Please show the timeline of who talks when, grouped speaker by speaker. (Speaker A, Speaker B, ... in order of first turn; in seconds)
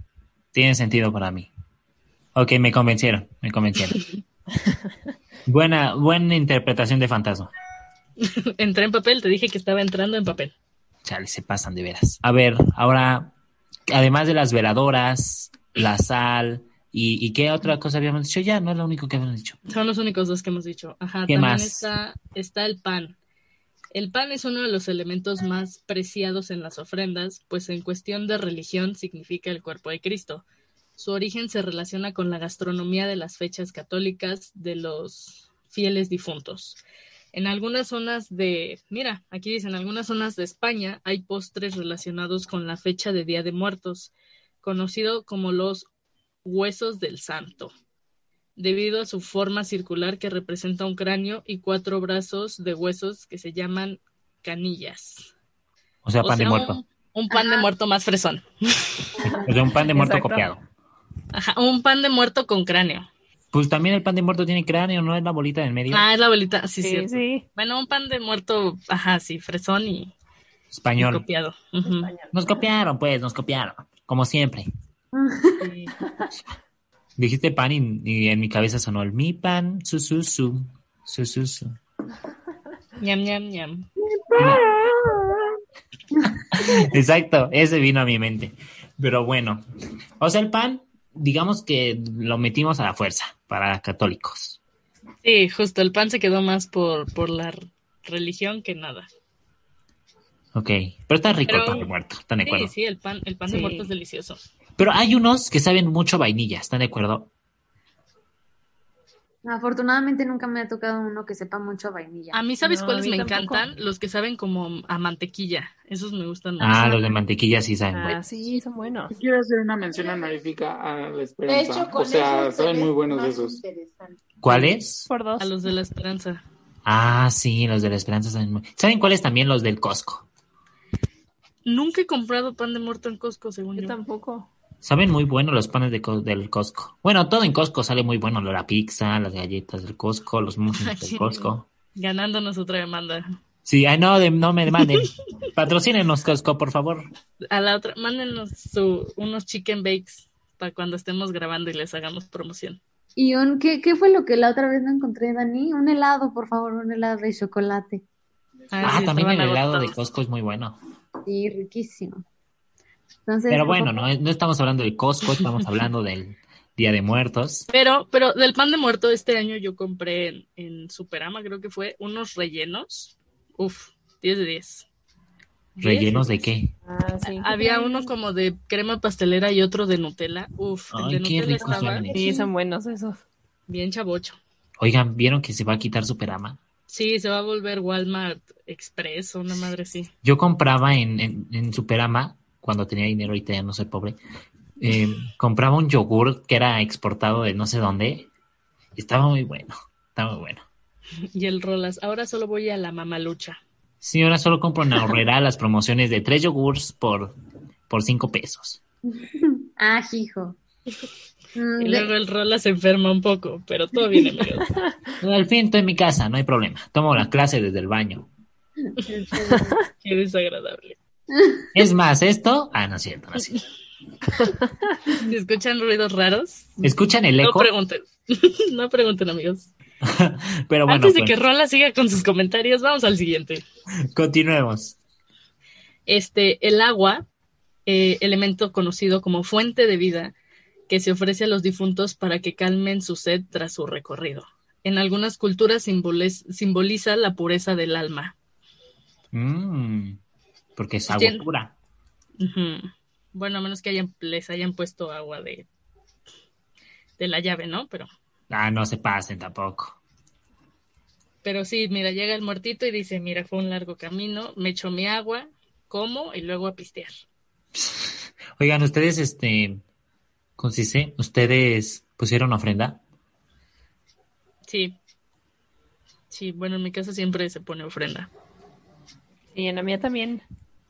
Speaker A: 0.5-1.5, 2.3-4.0, 5.5-7.5, 11.0-13.3, 13.9-19.6, 21.3-21.9, 56.0-56.8, 59.4-60.6, 63.5-66.1, 70.7-71.2, 72.3-74.7, 77.2-81.8, 84.4-84.6, 86.5-89.6, 90.2-94.6, 100.5-102.7, 104.8-107.3, 116.6-118.2, 124.4-125.1, 126.8-130.3, 134.8-141.7, 143.6-147.1, 158.8-160.8, 163.5-167.7, 175.8-176.7, 180.9-182.2, 184.8-186.6, 190.2-194.2, 194.8-198.3, 198.9-200.7, 204.0-207.3, 207.9-208.8, 215.2-218.3, 221.7-223.6, 226.8-227.7, 230.0-231.3, 234.1-235.0, 249.3-250.2, 250.8-251.7, 258.5-260.0, 267.8-269.8, 270.6-273.0
Speaker B: 8.2-10.5, 19.7-23.1, 23.9-30.4, 31.0-36.8, 37.3-45.9, 46.4-47.7, 48.5-55.3, 56.2-59.1, 61.3-63.1, 65.9-70.1, 71.0-72.1, 75.6-75.9, 83.0-83.8, 95.2-99.1, 101.5-101.9, 102.4-104.4, 112.3-117.0, 125.4-126.4, 131.7-134.0, 140.8-143.2, 147.5-152.8, 158.7-160.0, 167.7-174.9, 175.8-176.4, 177.3-182.4, 183.7-184.4, 186.9-190.1, 201.3-203.6, 211.8-214.7, 219.9-221.0, 225.2-229.7, 230.9-233.6, 236.1-237.2, 237.8-240.3, 240.9-248.3, 251.1-251.4, 252.4-255.7, 257.2-258.1, 261.4-267.1, 274.6-274.9, 276.3-278.3
Speaker C: 57.3-57.6, 59.2-59.6, 75.1-75.7, 84.2-84.9, 86.2-86.9, 109.4-112.4, 153.2-158.0, 161.2-162.2, 163.3-164.1, 209.1-210.6, 211.5-212.1, 218.9-219.8, 221.3-221.7
Speaker D: 59.9-60.5, 66.8-67.4, 71.8-72.3, 84.9-85.3, 103.5-103.9, 112.6-113.7, 117.9-119.1, 124.5-125.7, 133.8-134.5, 176.8-178.1, 181.6-183.2, 279.5-280.4
Speaker E: 119.1-123.6
Speaker F: 121.5-124.2